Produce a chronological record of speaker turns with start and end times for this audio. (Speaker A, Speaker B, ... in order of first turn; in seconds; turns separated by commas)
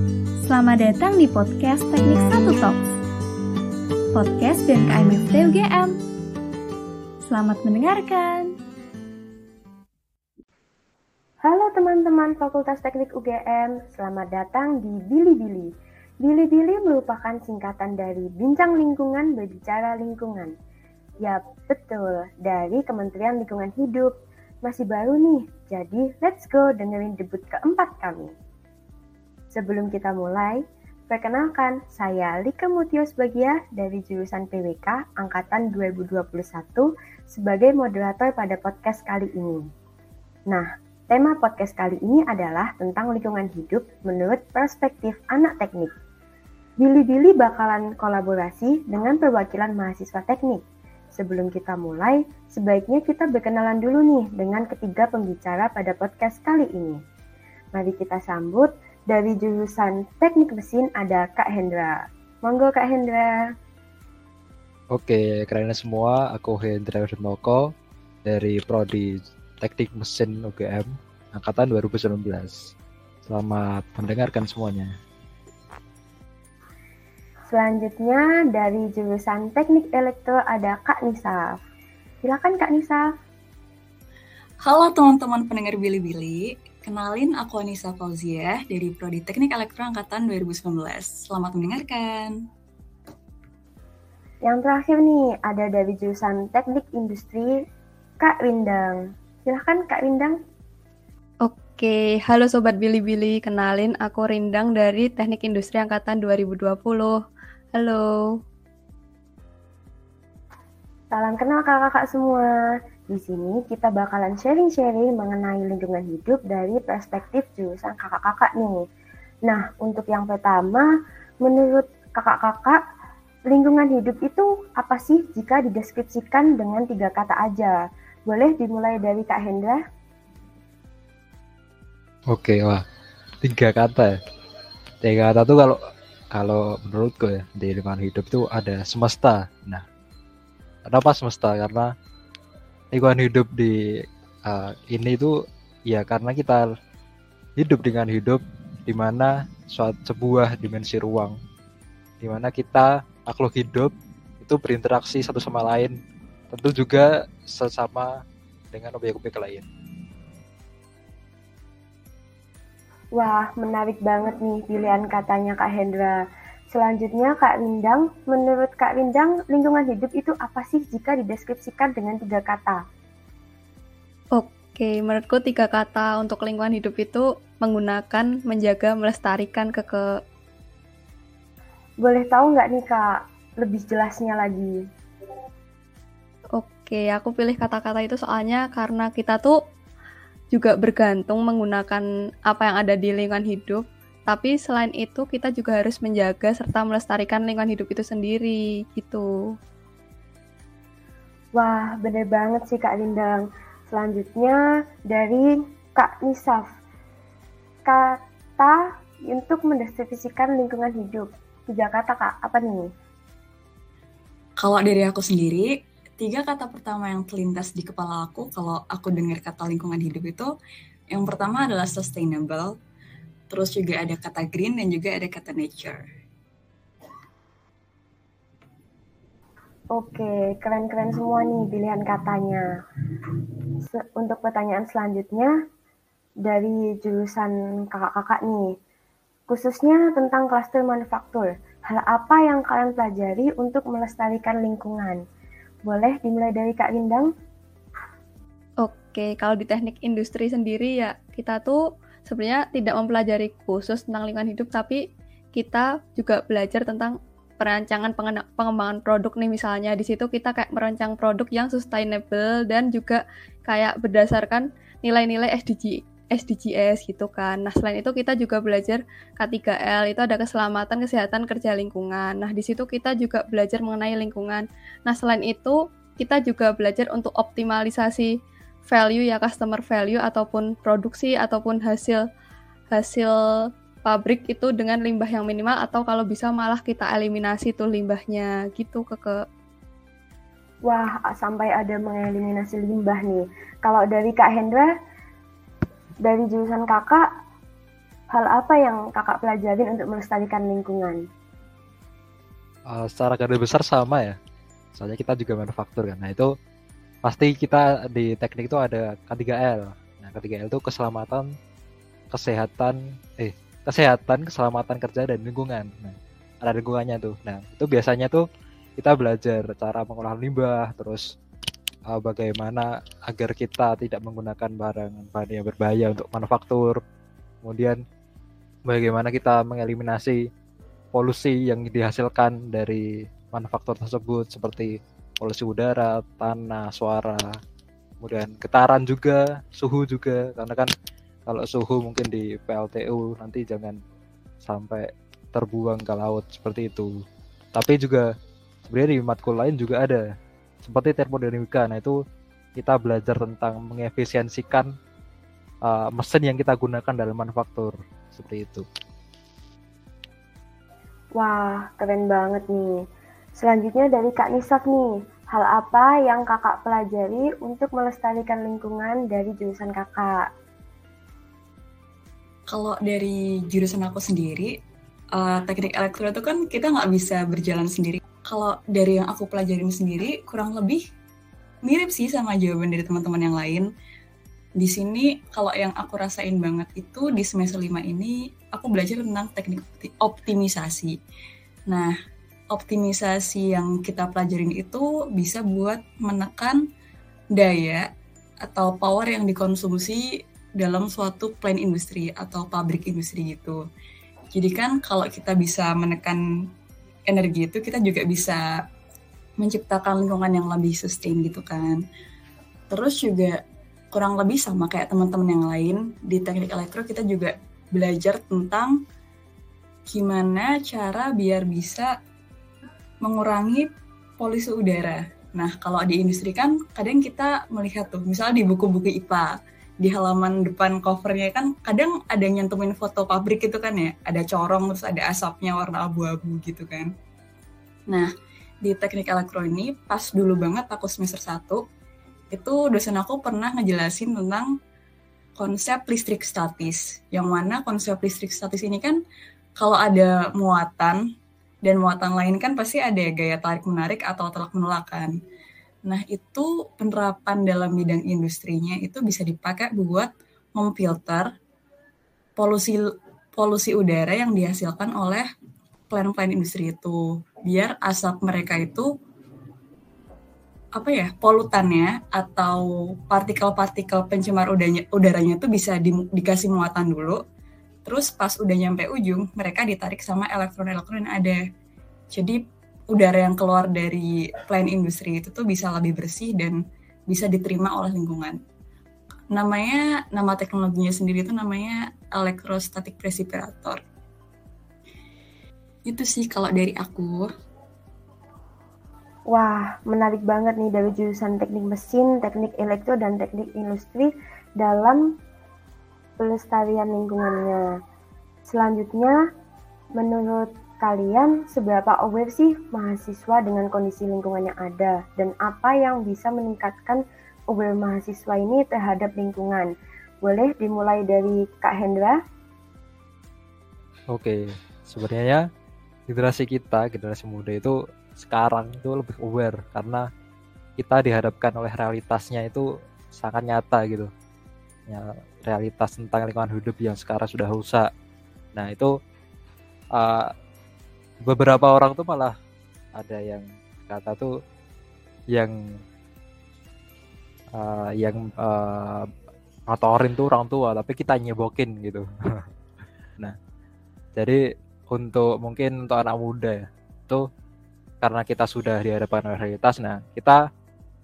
Speaker A: 0.4-2.8, Speaker A: 4.1-6.0, Speaker A: 7.2-8.6, Speaker B: 11.4-15.7, Speaker B: 16.2-20.5, Speaker B: 21.2-28.3, Speaker B: 29.5-39.7, Speaker B: 40.5-45.9, Speaker B: 46.8-50.6, Speaker B: 51.2-57.0, Speaker B: 57.8-63.4, Speaker C: 64.9-67.7, Speaker C: 68.3-72.7, Speaker C: 73.3-74.9, Speaker B: 77.5-81.6, Speaker B: 82.2-83.1, Speaker D: 84.6-92.4, Speaker B: 94.5-97.6, Speaker B: 98.2-100.4, Speaker E: 101.4-107.2, Speaker E: 107.8-108.1, Speaker B: 111.1-112.5, Speaker B: 113.1-118.8, Speaker B: 119.5-120.9, Speaker B: 121.4-122.8, Speaker B: 123.5-129.8, Speaker C: 132.3-132.8, Speaker C: 133.4-134.2, Speaker C: 135.0-135.8, Speaker C: 136.3-139.8, Speaker C: 140.9-141.9, Speaker C: 142.9-146.7, Speaker C: 147.6-151.4, Speaker C: 152.2-156.0, Speaker C: 156.5-158.2, Speaker C: 158.7-159.7, Speaker B: 163.2-172.8, Speaker E: 174.4-180.0, Speaker B: 182.0-184.8, Speaker E: 186.6-189.6, Speaker E: 190.5-199.3, Speaker B: 201.6-206.7, Speaker B: 207.9-212.9, Speaker D: 214.6-220.5, Speaker D: 221.1-222.7, Speaker D: 223.5-226.0, Speaker B: 229.9-232.7, Speaker B: 233.9-235.5, Speaker B: 236.4-238.7, Speaker B: 239.5-245.2, Speaker B: 245.9-247.3, Speaker E: 248.8-255.0, Speaker E: 255.6-278.3, Speaker E: 278.9-282.2, Speaker E: 282.9-289.4, Speaker B: 290.9-294.9, Speaker B: 296.2-297.3, Speaker B: 298.3-301.3, Speaker C: 302.9-304.4, Speaker C: 304.9-306.5, Speaker C: 307.2-311.5, Speaker C: 312.3-318.5, Speaker C: 319.0-321.3, Speaker C: 322.1-327.0, Speaker C: 327.6-328.0, Speaker C: 328.9-330.5, Speaker C: 331.1-337.6, Speaker C: 338.2-340.9, Speaker C: 341.5-344.0, Speaker C: 344.6-347.1, Speaker C: 347.8-348.3, Speaker C: 348.9-350.2, Speaker C: 350.8-352.2, Speaker C: 352.8-354.9, Speaker C: 355.9-358.9, Speaker B: 361.4-363.0, Speaker B: 363.6-370.5, Speaker D: 372.7-374.7, Speaker D: 375.3-381.0, Speaker D: 381.9-383.9, Speaker D: 384.8-391.2, Speaker D: 391.9-392.1, Speaker D: 392.7-396.8, Speaker D: 397.6-398.1, Speaker D: 398.6-403.8, Speaker D: 404.5-406.4, Speaker D: 407.3-408.6, Speaker D: 409.6-412.0, Speaker D: 412.9-413.6, Speaker D: 414.1-419.0, Speaker D: 420.1-422.1, Speaker D: 423.2-423.9, Speaker D: 424.4-437.1, Speaker D: 438.8-441.8, Speaker D: 442.5-444.7, Speaker D: 445.6-449.2, Speaker D: 449.8-451.2, Speaker D: 451.9-455.3, Speaker D: 456.1-461.5, Speaker D: 462.6-463.0, Speaker D: 463.6-465.5, Speaker D: 466.1-469.1, Speaker D: 471.0-477.4, Speaker D: 478.1-481.6, Speaker D: 482.3-482.6, Speaker D: 483.1-488.6, Speaker D: 489.5-494.0, Speaker D: 496.1-497.5, Speaker B: 499.5-505.4, Speaker B: 506.4-507.8, Speaker B: 508.7-509.4, Speaker B: 510.2-519.9, Speaker B: 520.4-522.4, Speaker C: 524.3-525.7, Speaker C: 526.3-530.3, Speaker C: 531.0-534.3, Speaker C: 535.1-538.1, Speaker C: 538.8-539.2, Speaker C: 540.1-540.5, Speaker C: 541.5-542.5, Speaker C: 543.1-544.6, Speaker C: 545.5-546.0, Speaker C: 547.8-549.3, Speaker C: 549.9-552.7, Speaker C: 554.4-557.5, Speaker C: 558.2-560.6